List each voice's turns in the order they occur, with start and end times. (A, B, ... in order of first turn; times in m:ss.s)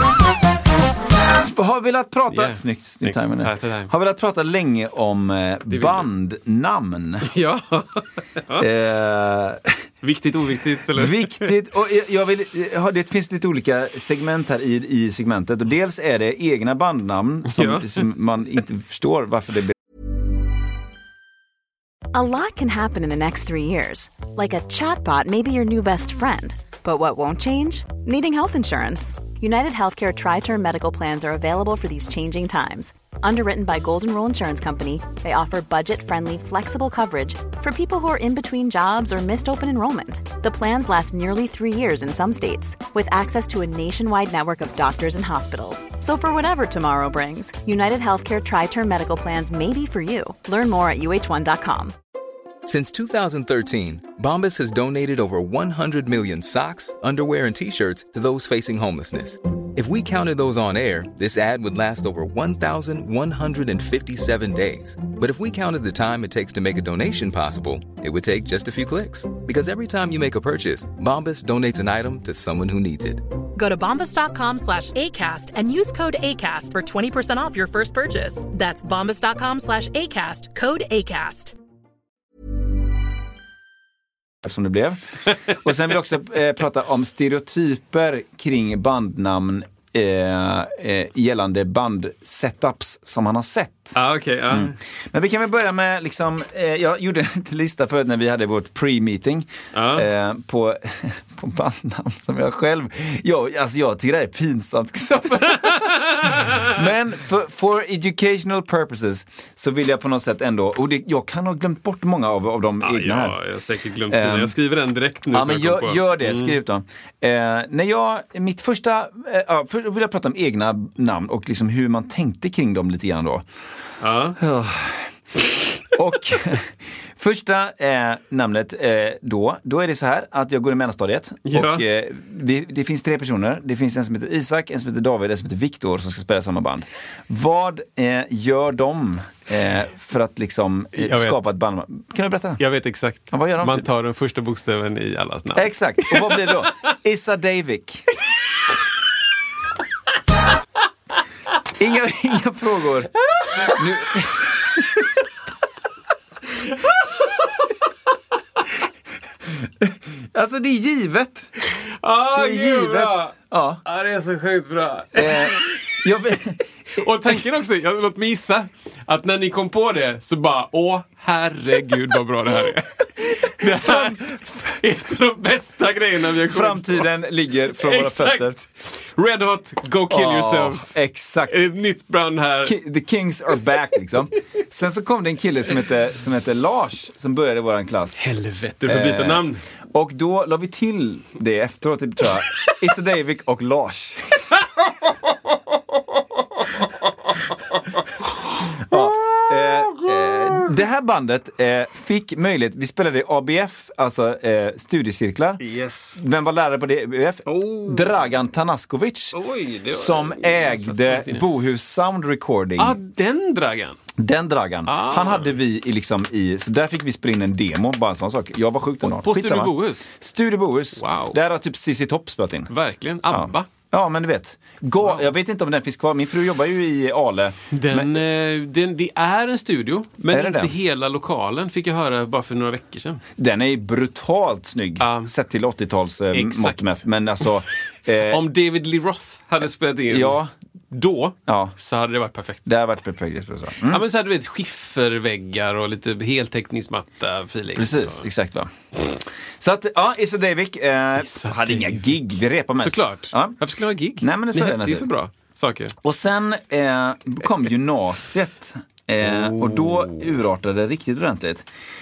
0:01.3-0:07.3 A
0:02.3-0:03.9 B
0:05.7-0:06.1 B
0:07.2-0:08.7 B
0:08.6-0:09.8 A
0:10.0-0:11.6 B
0:10.9-0:19.7 A
0:17.5-0:18.0 B
0:22.1-0:51.9 C
0:52.6-1:13.2 D
1:13.6-1:21.6 E
1:24.4-1:34.0 A
1:34.0-1:34.8 B
1:34.5-1:53.4 A
1:39.7-1:40.1 B
1:46.1-1:46.6 B
1:52.8-1:56.6 B
1:54.1-1:54.5 A
1:55.3-2:03.4 A
2:04.0-2:04.4 B
2:04.4-2:22.6 A
2:11.4-2:11.8 B
2:21.0-2:21.4 B
2:22.6-2:26.5 B
2:23.3-2:23.9 A
2:25.6-2:28.1 A
2:31.8-2:35.1 A
2:39.5-2:41.5 A
2:41.9-2:43.3 B
2:42.4-2:43.8 A
2:43.8-2:46.1 B
2:45.2-2:47.4 A
2:47.0-2:57.1 B
2:53.6-2:54.3 A
2:56.5-2:58.6 A
2:57.7-3:02.8 B
3:00.1-3:01.6 A
3:02.6-3:08.2 A
3:08.2-3:09.6 B
3:08.9-3:14.6 A
3:18.7-3:25.6 A
3:18.9-3:20.7 B
3:25.6-3:26.2 B
3:26.2-3:33.0 A
3:27.5-3:28.2 B
3:29.3-3:31.4 B
3:32.8-3:34.0 B
3:34.2-3:42.7 A
3:34.9-3:35.5 B
3:39.0-3:40.1 B
3:41.0-3:41.4 B
3:42.7-3:43.7 B
3:43.3-3:48.1 A
3:45.0-3:45.3 B
3:47.7-3:53.2 B
3:50.3-3:50.8 A
3:53.4-3:58.4 A
3:55.0-3:55.3 B
3:56.3-3:57.0 B
3:58.2-4:00.4 B
4:00.1-4:00.5 A
4:00.9-4:02.7 B
4:01.5-4:01.7 A
4:02.7-4:04.0 A
4:03.8-4:08.3 B
4:07.8-4:13.6 A
4:11.2-4:12.1 B
4:12.8-4:16.0 B
4:14.2-4:15.1 A
4:16.0-4:21.7 A
4:19.2-4:20.3 B